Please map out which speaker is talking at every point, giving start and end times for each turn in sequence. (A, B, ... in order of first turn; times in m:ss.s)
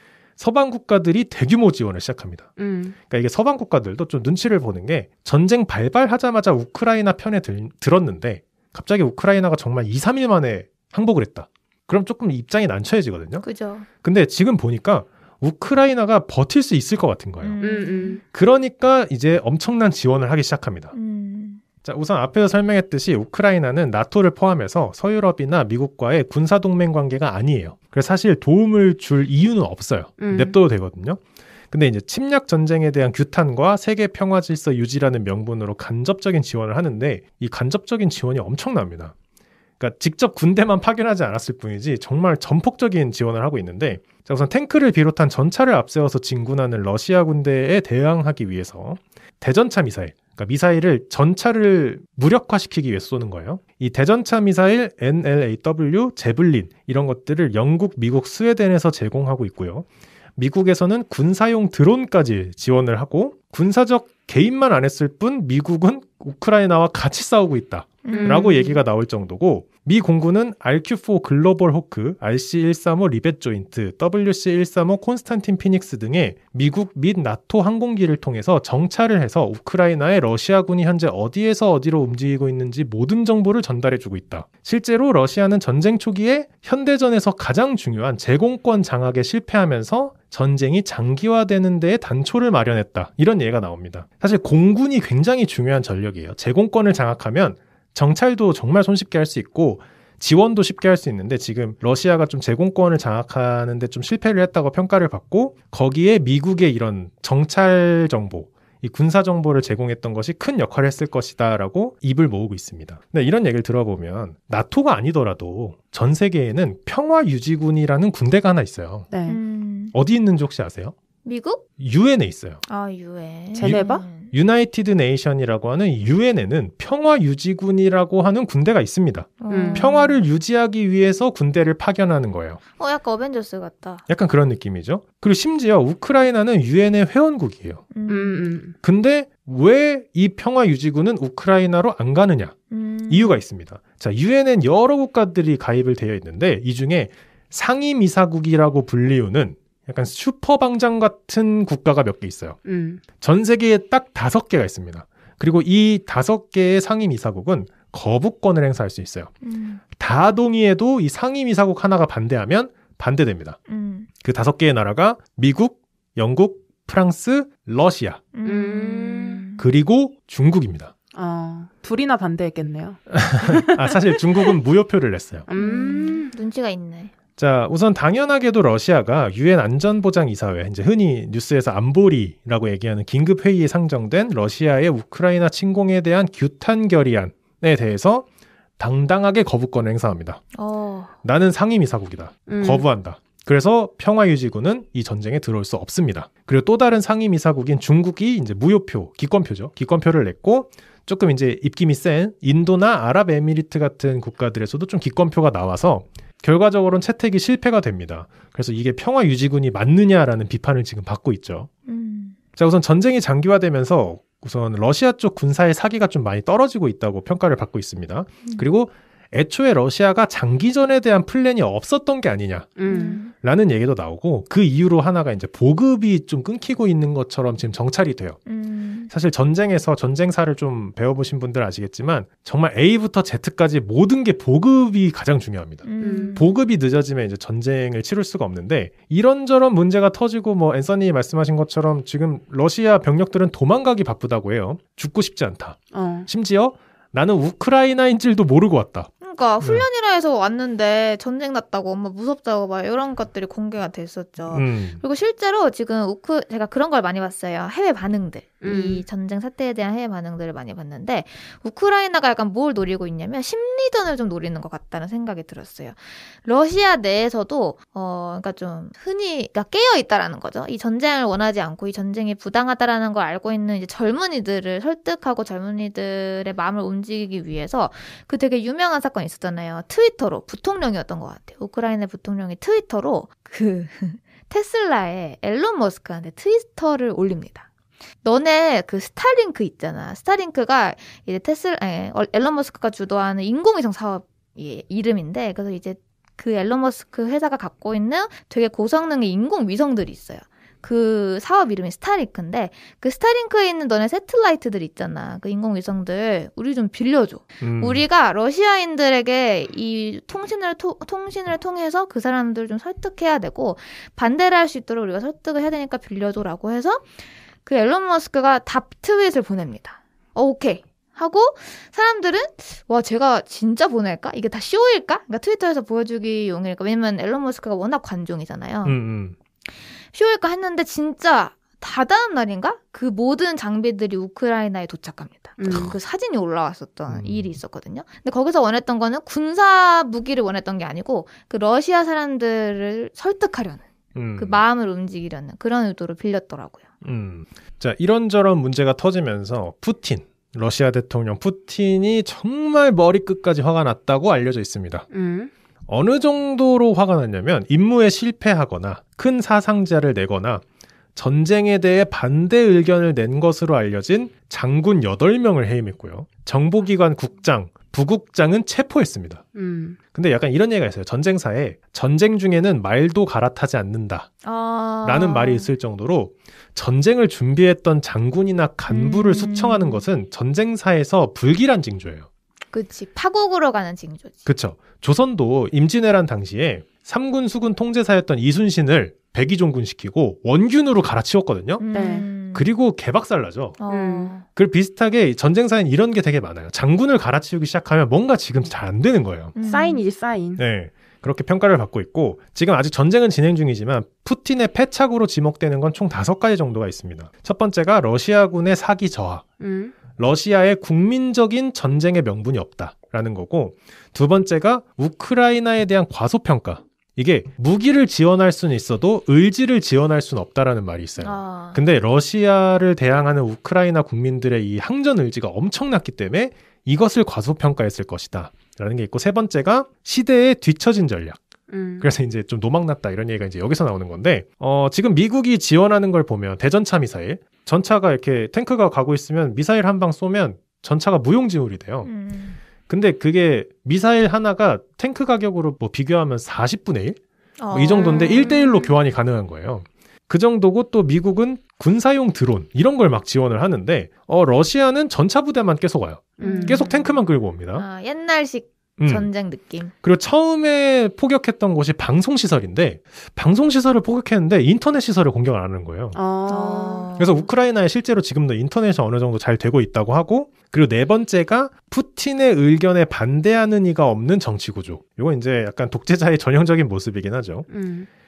0:00.4-0:02.5 A
0:02.6-0:03.0 B
0:03.1-0:13.4 A
0:13.4-0:13.9 C
0:14.0-0:17.6 A
0:17.4-0:18.2 C
0:17.6-0:18.2 B
0:18.3-0:20.9 A
0:20.9-0:21.6 C
0:21.8-0:39.1 A
0:30.2-0:30.6 B
0:39.8-1:59.1 A
1:08.0-1:08.8 C
1:08.1-1:08.6 B
1:59.1-1:59.4 B
1:59.3-1:59.9 C
1:59.9-2:01.0 A
2:01.2-2:01.6 C
2:01.8-2:02.6 A
2:02.7-2:04.3 C
2:03.6-2:04.1 B
2:03.6-2:12.6 A
2:09.4-2:10.2 C
2:09.5-2:09.9 B
2:12.8-2:14.0 C
2:14.1-2:17.9 A
2:17.9-2:18.4 C
2:18.1-2:18.8 B
2:18.8-2:22.6 A
2:22.7-2:23.4 C
2:23.1-2:32.6 A
2:32.6-2:33.0 B
2:33.2-2:39.3 A
2:39.4-2:39.8 C
2:40.0-2:43.6 A
2:43.7-2:44.1 C
2:44.2-2:48.2 A
2:48.3-2:49.7 C
2:48.5-2:49.4 B
2:49.6-2:50.9 A
2:51.1-2:54.6 B
2:53.1-2:55.5 A
2:55.5-2:56.3 B
2:55.6-2:57.1 C
2:57.4-3:08.2 A
3:08.8-3:10.4 A
3:10.6-3:11.1 C
3:11.2-3:31.7 A
3:12.5-3:12.8 B
3:31.9-3:32.4 C
3:32.6-3:48.4 A
3:42.8-3:43.2 B
3:42.9-3:43.3 C
3:48.5-3:49.1 C
3:49.1-4:09.1 A
3:55.8-3:56.6 C
3:56.0-3:56.4 B
4:05.9-4:06.3 B
4:09.2-4:47.7 C
4:14.5-4:15.0 A
4:18.6-4:19.0 B
4:48.2-5:17.0 C
5:07.6-5:08.0 A
5:17.6-5:29.0 C
5:28.8-5:29.4 A
5:30.1-5:43.8 C
5:35.6-5:35.9 B
5:37.1-5:37.5 A
5:44.2-5:44.6 A
5:44.4-5:46.8 C
5:47.0-5:55.1 A
5:55.1-5:55.5 B
5:55.9-6:00.6 A
6:01.2-6:09.4 A
6:09.6-6:10.0 B
6:10.1-6:14.3 A
6:14.4-6:15.7 C
6:15.0-6:22.3 A
6:18.9-6:20.0 C
6:22.7-6:24.4 C
6:24.4-6:31.8 A
6:31.8-6:32.7 C
6:31.9-6:32.3 B
6:32.5-6:33.8 A
6:33.8-6:34.4 C
6:33.9-6:34.3 B
6:34.5-6:39.6 A
6:39.6-6:40.0 C
6:39.6-6:40.6 B
6:40.6-6:49.4 A
6:49.6-6:50.0 B
6:50.2-7:11.4 A
7:01.2-7:01.8 C
7:11.7-7:12.1 B
7:12.0-7:22.1 A
7:22.0-7:22.6 C
7:22.9-7:27.2 A
7:27.6-7:28.9 C
7:27.7-7:37.8 A
7:28.0-7:28.6 B
7:36.4-7:36.9 B
7:36.4-7:37.2 C
7:37.8-7:39.9 C
7:39.0-7:39.3 A
7:40.0-7:46.2 A
7:46.1-7:47.1 B
7:46.5-7:47.5 C
7:47.2-7:57.7 A
7:57.7-7:58.1 B